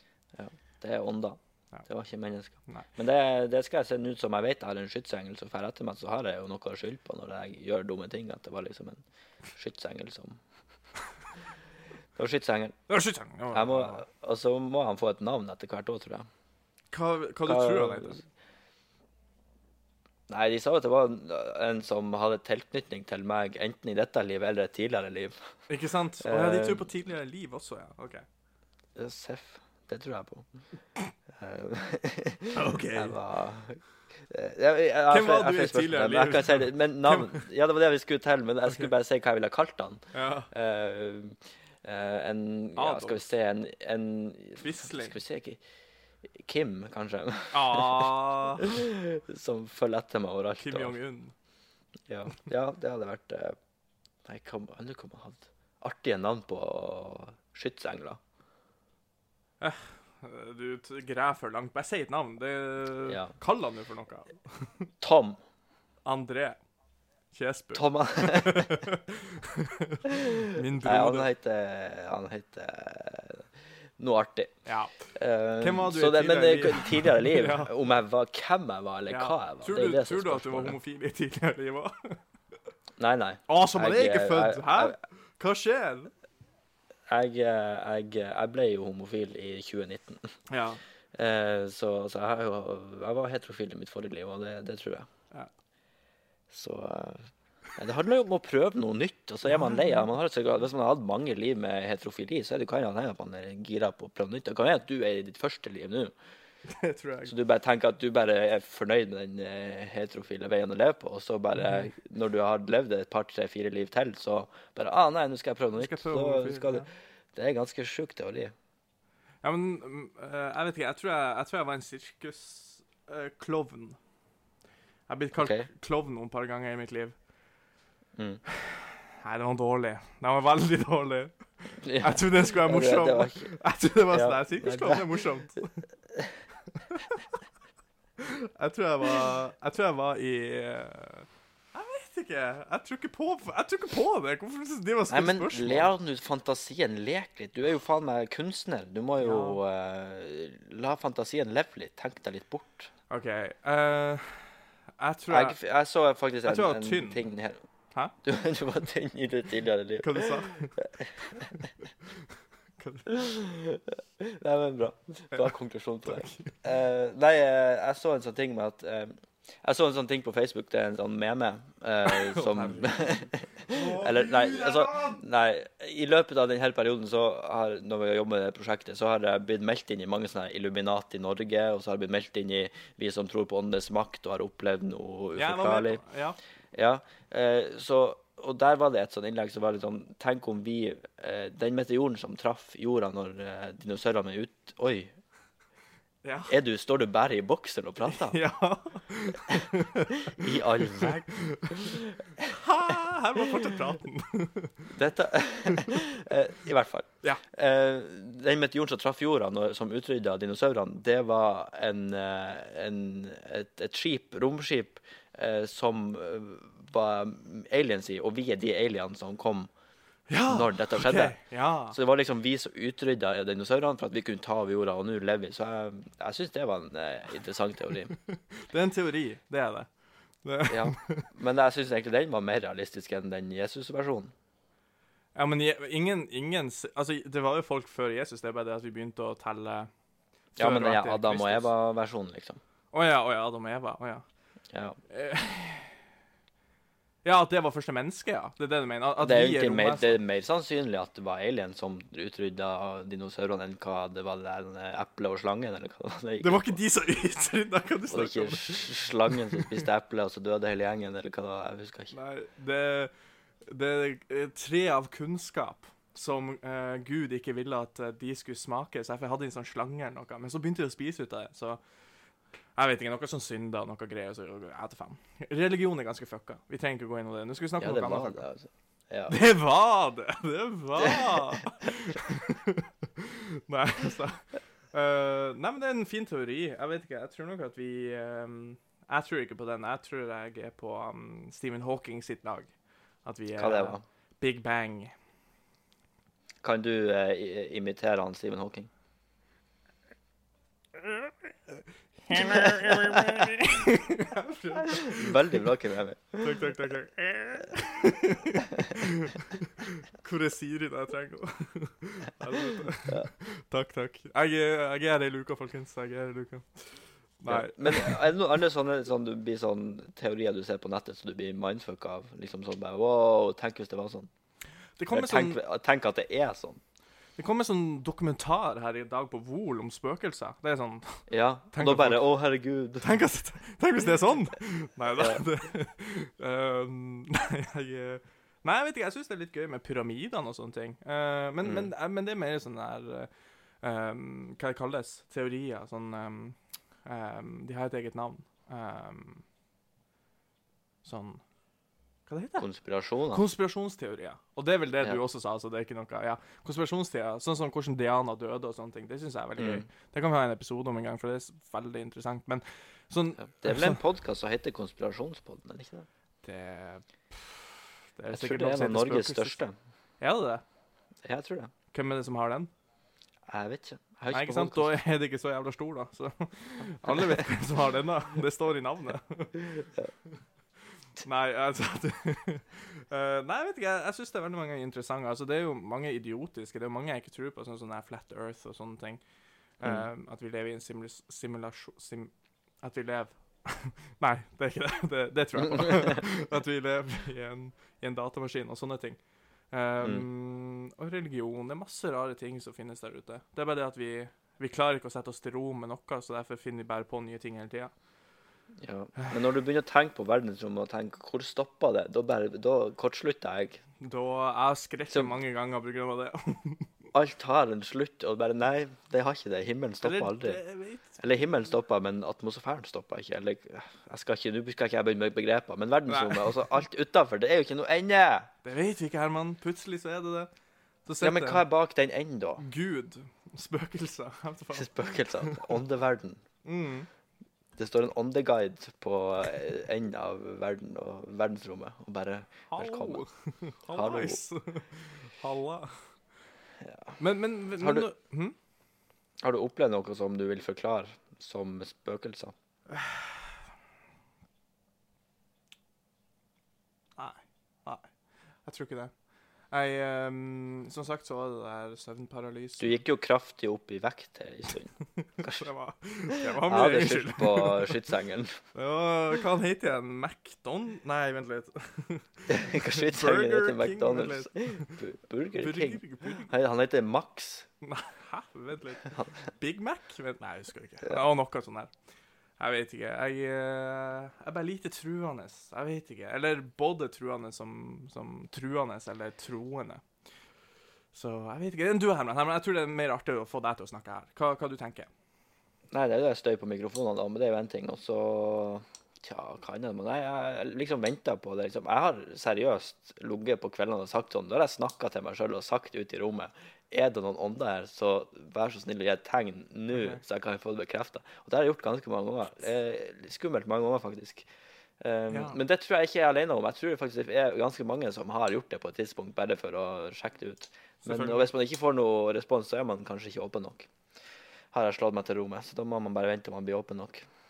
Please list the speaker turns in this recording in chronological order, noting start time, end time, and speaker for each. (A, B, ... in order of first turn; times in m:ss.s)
0:00.4-0:09.0 A
0:09.5-0:10.4 A
0:12.2-0:12.8 A
0:12.9-0:14.0 B
0:13.5-0:16.3 A
0:16.9-0:18.2 B
0:17.4-0:18.2 A
0:20.3-0:25.4 A
0:25.7-0:28.2 B
0:26.2-0:26.9 A
0:29.0-0:30.4 A
0:31.3-0:45.6 A
0:32.5-0:33.2 B
0:35.1-0:37.4 B
0:40.1-0:40.5 B
0:42.8-0:43.2 B
0:44.6-0:45.2 B
0:46.4-0:51.0 A
0:47.5-0:48.8 B
0:50.6-0:51.3 B
0:52.1-0:53.6 A
0:54.2-0:58.2 A
0:59.6-1:04.8 B
1:03.1-1:03.3 A
1:05.0-1:05.4 A
1:06.0-1:06.6 B
1:07.3-1:11.3 B
1:07.7-1:08.8 A
1:10.2-1:13.4 A
1:14.0-1:14.5 A
1:14.6-1:14.9 B
1:15.1-1:20.8 A
1:15.6-1:17.7 B
1:19.1-1:22.2 B
1:23.0-1:25.0 A
1:23.5-1:26.1 B
1:27.1-1:30.3 A
1:30.5-1:30.8 B
1:31.1-1:35.1 A
1:36.5-1:46.1 A
1:46.6-1:47.3 B
1:47.2-1:58.5 A
1:55.8-1:56.9 B
1:59.4-2:04.0 B
2:05.1-2:07.1 B
2:05.4-2:05.7 A
2:08.5-2:11.3 B
2:11.8-2:13.5 A
2:12.0-2:15.8 B
2:14.1-2:15.1 A
2:16.9-2:17.2 B
2:18.2-2:25.9 B
2:25.1-2:32.9 A
2:29.2-2:29.6 B
2:33.1-2:35.6 B
2:35.3-2:37.6 A
2:36.4-2:37.2 B
2:38.2-2:41.4 A
2:40.0-2:40.7 B
2:41.4-2:42.2 B
2:42.8-2:43.1 B
2:43.1-3:06.0 A
2:46.0-2:46.5 B
2:52.0-2:55.2 B
3:05.4-3:06.4 B
3:06.7-3:15.1 A
3:16.2-3:16.5 B
3:16.5-3:18.4 A
3:18.1-3:24.8 B
3:20.3-3:21.3 A
3:24.9-3:39.7 A
3:40.3-3:42.0 B
3:40.5-3:41.4 A
3:41.9-3:48.1 A
3:48.3-3:49.9 B
3:50.4-3:51.3 B
3:50.7-3:54.3 A
3:55.3-3:59.9 B
4:00.6-4:01.7 B
4:00.6-4:02.6 A
4:02.9-4:04.2 B
4:04.7-4:05.0 A
4:05.1-4:05.9 B
4:07.2-4:10.2 B
4:09.2-4:16.8 A
4:16.4-4:19.8 B
4:18.1-4:22.1 A
4:22.1-4:23.1 B
4:23.6-4:31.8 B
4:32.8-4:38.4 B
4:37.8-4:39.4 A
4:39.3-4:52.7 B
4:53.2-4:55.1 B
4:53.6-4:54.0 A
4:56.6-4:58.9 A
5:01.0-5:01.7 B
5:02.3-5:05.6 B
5:05.0-5:06.6 A
5:06.4-5:18.2 B
5:17.5-5:24.3 A
5:25.0-5:25.6 B
5:25.1-5:26.8 A
5:27.4-5:32.2 B
5:31.3-5:33.1 A
5:33.0-5:43.3 B
5:41.6-5:41.9 A
5:43.8-5:49.4 B
5:51.0-5:51.4 B
5:52.3-5:52.6 B
5:52.6-5:53.4 A
5:53.3-6:04.0 B
5:59.6-5:59.8 A
6:03.4-6:06.1 A
6:06.4-6:09.6 B
6:08.3-6:09.8 A
6:10.2-6:10.6 B
6:11.2-6:11.7 A
6:11.9-6:12.7 B
6:13.5-6:14.9 A
6:14.3-6:19.6 B
6:21.2-6:29.2 B
6:29.8-6:39.2 B
6:29.8-6:30.1 A
6:35.7-6:36.1 A
6:39.7-6:47.9 B
6:40.0-6:40.2 A
6:48.8-6:53.8 A
6:54.0-6:56.9 B
6:55.1-6:55.4 A
6:57.1-7:00.6 A
7:00.0-7:01.2 B
7:01.2-7:08.5 A
7:06.1-7:06.8 B
7:08.6-7:10.5 B
7:11.0-7:11.6 B
7:11.2-7:12.6 A
7:12.6-7:15.8 B
7:14.7-7:16.4 A
7:16.6-7:17.1 B
7:17.8-7:23.2 A
7:22.7-7:25.9 B
7:23.9-7:24.4 A
7:26.8-7:27.2 A
7:27.2-7:28.6 B
7:27.8-7:28.1 A
7:29.4-7:32.5 A
7:32.9-7:33.3 B
7:37.2-7:38.1 B
7:38.6-7:39.1 B
7:39.7-7:43.0 B
7:42.8-7:45.7 A
7:45.4-7:48.0 B
7:46.6-7:48.6 A
7:48.7-7:55.0 B
7:52.5-7:57.7 A
7:55.5-7:56.5 B
7:57.8-8:01.9 B
8:02.6-8:10.0 B
8:11.1-8:15.1 B
8:15.9-8:34.5 A
8:29.9-8:30.2 B
8:35.0-8:43.9 A
8:35.3-8:35.6 B
8:41.0-8:41.5 B
8:44.7-8:47.2 A